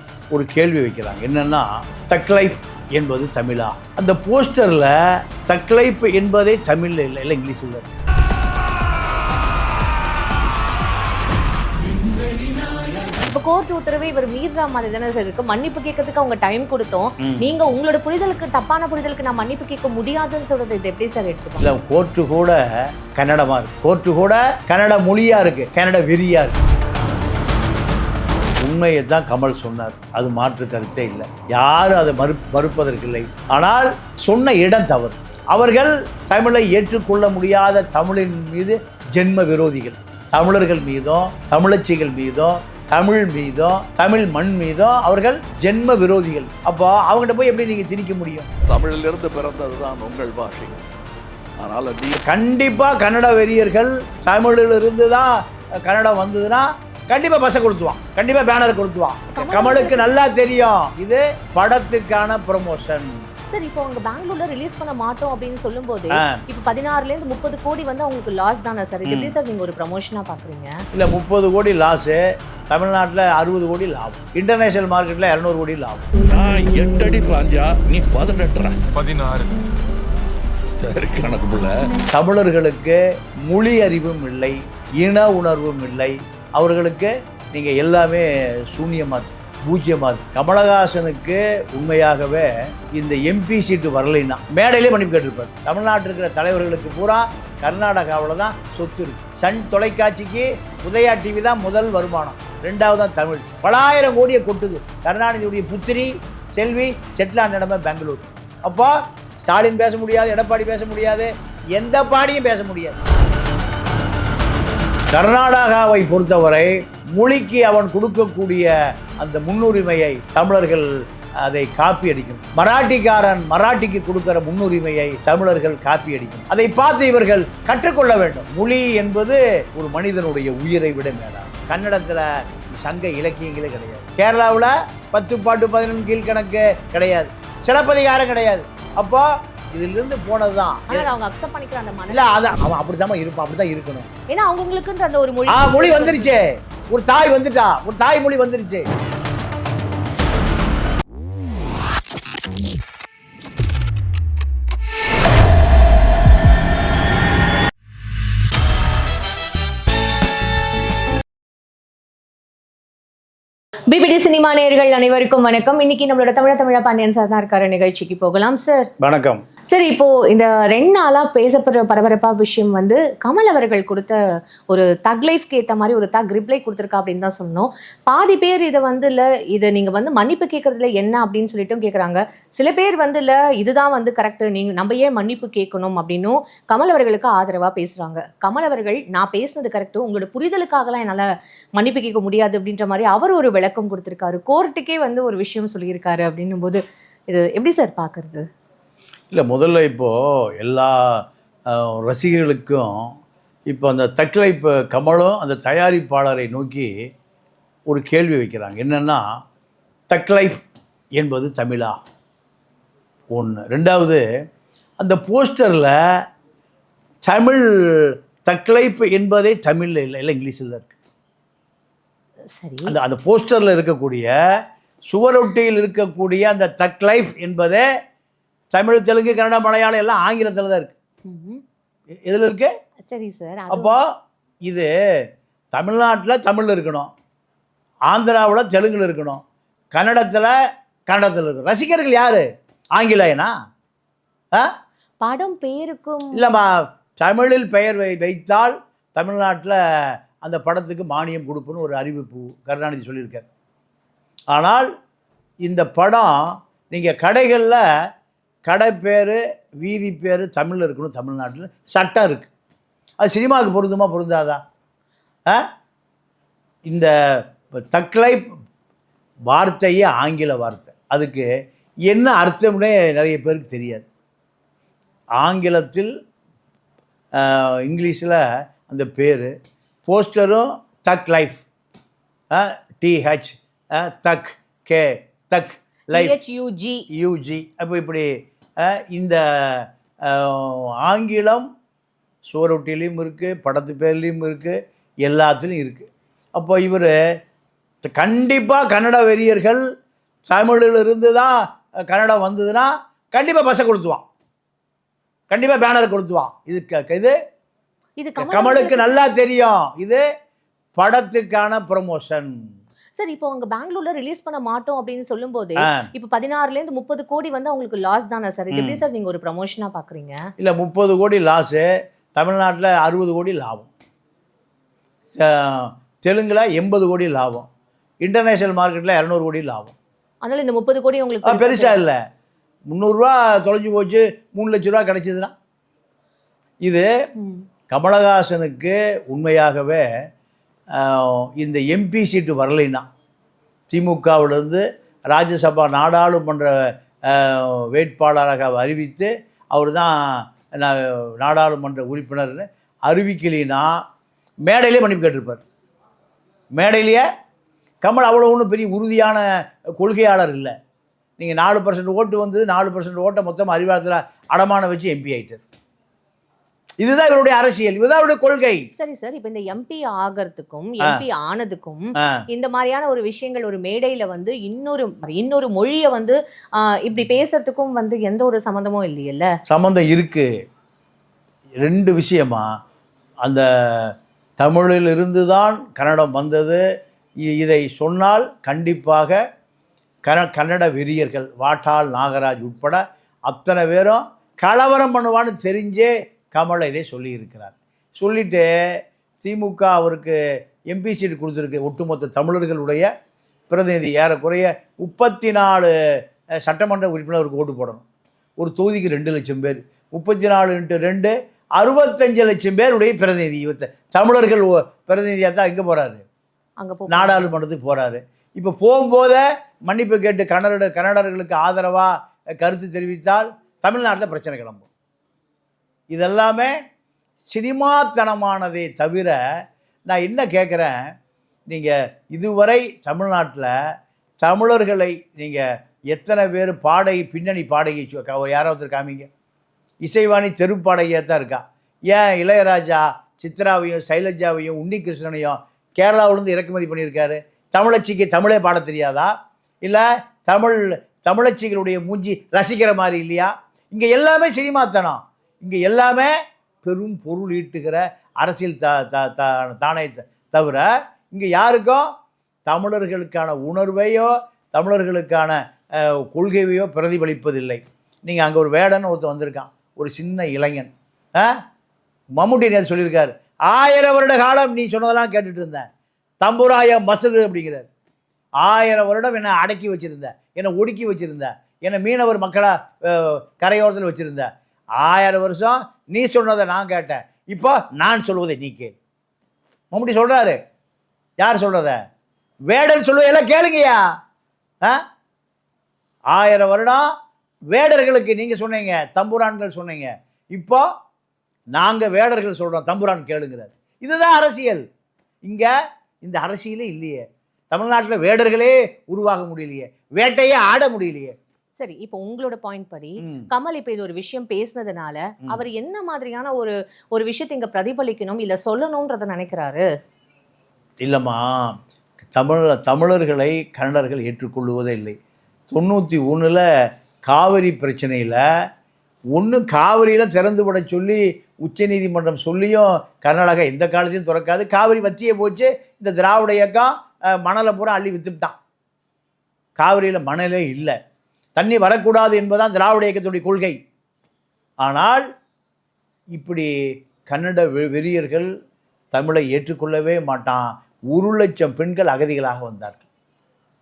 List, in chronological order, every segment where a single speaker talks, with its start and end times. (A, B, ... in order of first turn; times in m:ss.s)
0:00.3-0:07.9 A
0:12.7-0:21.7 B
0:21.6-0:26.6 A
0:28.6-0:48.5 A
0:48.6-0:50.8 C
0:51.6-0:52.2 C
0:52.2-1:03.2 A
0:59.3-1:00.2 B
1:03.5-1:10.7 B
1:06.1-1:06.4 A
1:09.0-1:09.3 A
1:10.9-1:16.0 A
1:16.2-1:19.4 C
1:20.8-1:21.9 C
1:22.1-1:52.9 A
1:55.1-2:00.9 A
2:01.4-2:12.2 A
2:12.8-2:21.1 A
2:20.9-2:22.6 B
2:22.1-2:24.1 A
2:24.3-2:26.4 B
2:25.5-2:28.8 A
2:43.9-2:48.9 B
2:49.0-2:49.4 A
2:49.7-3:18.4 B
3:19.3-3:23.1 A
3:23.7-3:26.9 A
3:27.9-3:29.2 A
3:30.1-3:30.6 A
3:31.2-3:32.0 A
3:33.3-3:34.2 A
3:35.0-3:35.9 A
3:37.2-3:40.9 A
3:42.5-3:42.9 B
3:42.8-3:44.3 A
3:45.1-3:47.9 A
3:48.7-3:50.9 A
3:51.2-3:51.6 B
3:52.2-3:52.7 A
3:53.1-3:54.0 B
3:53.7-3:54.0 A
3:54.6-3:54.9 A
3:55.7-3:57.1 A
3:58.1-3:59.4 A
3:59.9-4:00.5 A
4:01.1-4:03.5 A
4:05.2-4:06.4 B
4:06.3-4:09.8 A
4:10.4-4:13.4 A
4:14.5-4:14.9 A
4:15.6-4:17.8 A
4:18.7-4:22.5 A
4:23.2-4:24.6 A
4:26.8-4:27.1 A
4:27.9-4:28.5 A
4:29.5-4:31.5 A
4:32.1-4:34.0 A
4:35.4-4:36.1 A
4:37.4-4:39.5 A
4:40.0-4:41.6 A
4:42.5-4:46.3 A
4:46.1-4:47.0 B
4:47.1-4:51.6 A
4:52.4-4:57.1 A
4:58.1-4:59.8 A
5:00.5-5:04.2 A
5:05.5-5:07.3 A
5:08.2-5:09.2 B
5:08.4-5:10.2 A
5:11.0-5:12.6 A
5:13.2-5:20.4 B
5:15.8-5:16.1 A
5:18.7-5:19.0 A
5:20.6-5:23.9 A
5:25.3-5:27.7 A
5:28.2-5:29.9 A
5:30.4-5:32.0 B
5:31.4-5:32.2 A
5:32.9-5:35.5 A
5:36.8-5:37.1 A
5:37.9-5:40.0 A
5:40.9-5:43.0 A
5:43.9-5:46.7 A
5:47.3-5:54.0 A
5:54.6-5:55.6 A
5:56.7-5:57.2 A
5:58.0-6:00.7 A
6:01.4-6:05.6 A
6:07.0-6:08.8 A
6:09.0-6:19.5 B
6:19.7-6:20.5 A
6:21.8-6:22.7 A
6:23.4-6:26.8 A
6:27.4-6:29.4 A
6:30.2-6:38.7 A
6:39.4-6:40.4 A
6:40.9-6:43.1 A
6:43.7-6:45.9 A
6:46.6-6:48.0 A
6:48.6-6:56.2 A
6:56.8-6:57.5 B
6:57.1-7:04.8 A
7:06.1-7:06.7 A
7:07.5-7:09.4 A
7:10.0-7:11.0 A
7:11.7-7:13.7 A
7:14.4-7:19.3 A
7:20.0-7:29.3 A
7:29.8-7:36.3 A
7:36.8-7:42.1 A
7:42.6-7:51.6 A
7:52.4-7:55.9 A
7:56.4-7:57.9 A
7:58.6-8:09.0 A
8:09.9-8:10.6 A
8:11.4-8:12.0 A
8:12.7-8:14.0 A
8:16.3-8:17.0 A
8:17.7-8:20.8 A
8:21.7-8:24.8 A
8:25.4-8:31.3 A
8:31.8-8:39.8 B
8:33.2-8:33.5 A
8:41.0-8:45.2 A
8:45.7-8:46.6 A
8:47.3-8:48.4 A
8:49.3-8:58.6 A
8:59.8-9:01.0 A
9:01.6-9:03.8 A
9:04.8-9:05.2 A
9:06.4-9:06.7 A
9:07.2-9:08.5 A
9:09.1-9:13.0 A